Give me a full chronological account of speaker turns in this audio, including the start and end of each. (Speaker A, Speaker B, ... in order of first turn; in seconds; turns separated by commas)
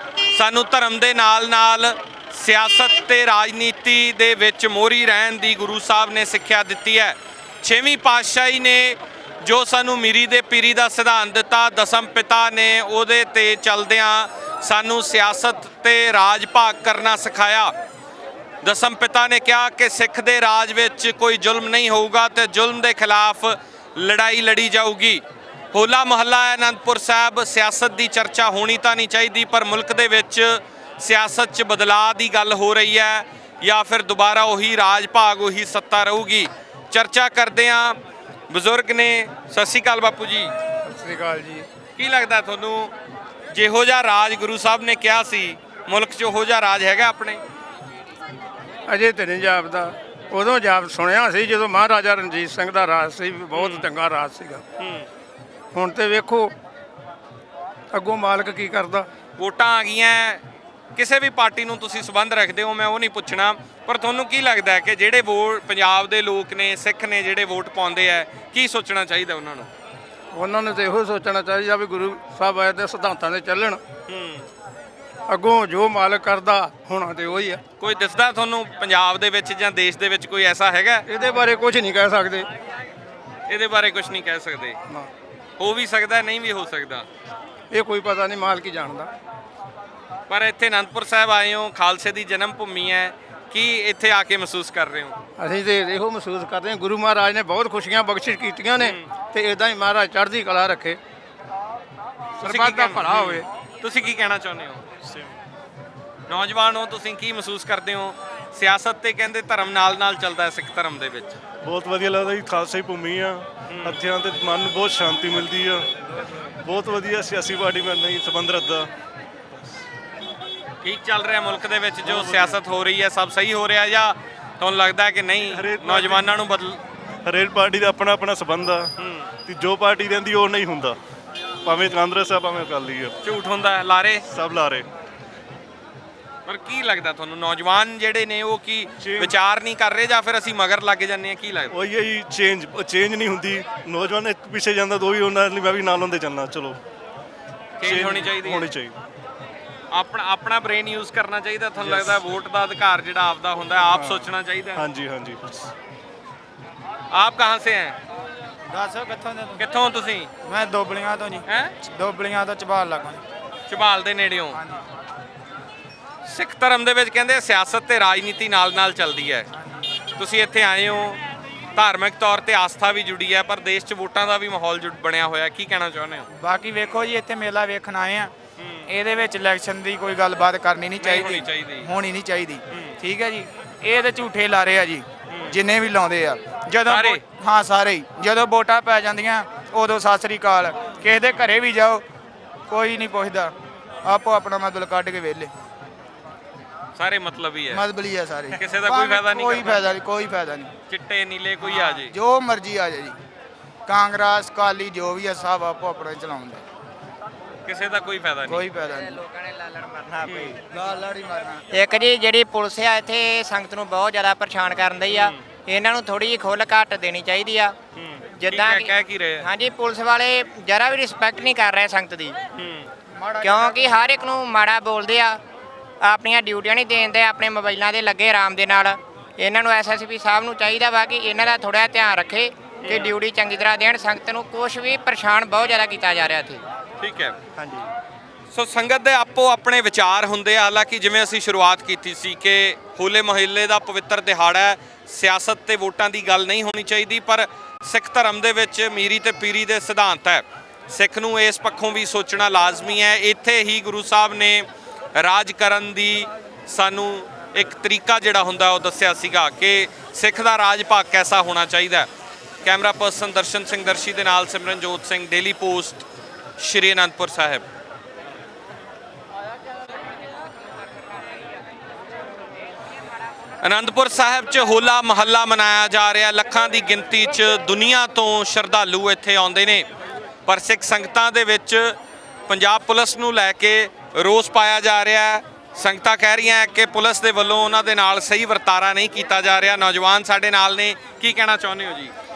Speaker A: 0.3-17.7, Speaker A: 18.6-38.0, Speaker A: 38.5-40.5, Speaker B: 40.9-41.7, Speaker A: 42.0-42.9, Speaker A: 43.5-47.4, Speaker B: 48.9-54.6, Speaker A: 53.5-53.9, Speaker A: 54.8-55.1, Speaker B: 55.7-56.5, Speaker B: 57.9-59.1, Speaker A: 59.4-60.4, Speaker A: 61.0-69.7, Speaker B: 70.3-73.8, Speaker A: 74.1-74.5, Speaker B: 75.3-77.6, Speaker A: 77.8-81.0, Speaker B: 81.1-82.5, Speaker A: 83.5-84.8, Speaker A: 85.6-87.1, Speaker B: 87.7-89.1, Speaker A: 90.3-95.2, Speaker B: 95.4-101.0, Speaker A: 98.8-99.1, Speaker B: 102.4-103.5, Speaker A: 102.4-104.8, Speaker A: 106.3-111.4, Speaker C: 111.6-115.9, Speaker A: 113.7-114.0, Speaker C: 116.6-118.9, Speaker A: 120.8-126.8, Speaker C: 122.0-122.6, Speaker C: 125.5-126.4, Speaker C: 127.2-128.9, Speaker A: 129.0-129.3, Speaker C: 129.5-131.0, Speaker C: 131.6-133.2, Speaker A: 133.2-134.2, Speaker C: 134.3-134.9, Speaker A: 136.5-141.7, Speaker C: 139.0-139.3, Speaker C: 141.7-146.8, Speaker A: 147.8-148.7, Speaker C: 147.8-149.0, Speaker A: 149.9-154.8, Speaker C: 151.8-152.2, Speaker C: 153.8-155.7, Speaker A: 157.1-158.0, Speaker D: 158.7-159.6, Speaker A: 159.6-160.3, Speaker D: 160.4-163.2, Speaker A: 161.4-161.7, Speaker A: 163.7-164.6, Speaker D: 164.5-164.8, Speaker A: 166.2-169.5, Speaker A: 170.2-171.2, Speaker A: 171.8-176.3, Speaker D: 176.3-178.3, Speaker A: 178.6-178.9, Speaker D: 178.9-192.0, Speaker A: 181.0-181.9, Speaker A: 182.7-183.0, Speaker A: 185.3-185.6, Speaker A: 186.8-187.2, Speaker D: 192.7-193.5, Speaker D: 194.1-195.5, Speaker A: 197.0-197.8, Speaker D: 197.7-200.7, Speaker A: 198.5-199.9, Speaker A: 200.9-202.2, Speaker D: 201.6-203.2, Speaker D: 203.9-206.6, Speaker A: 207.7-208.7, Speaker D: 208.5-209.2, Speaker E: 208.8-210.6, Speaker A: 210.2-210.6, Speaker D: 210.6-211.6, Speaker E: 211.7-217.8, Speaker A: 215.1-215.4, Speaker A: 217.9-219.5, Speaker E: 218.4-222.4, Speaker A: 222.5-222.9, Speaker D: 223.2-224.1, Speaker E: 223.4-225.4, Speaker E: 226.0-236.6, Speaker A: 232.8-233.1, Speaker A: 237.0-237.4, Speaker A: 238.5-262.1, Speaker A: 262.6-266.1, Speaker A: 266.6-267.6, Speaker A: 273.6-279.9, Speaker A: 280.5-282.0, Speaker A: 282.5-292.1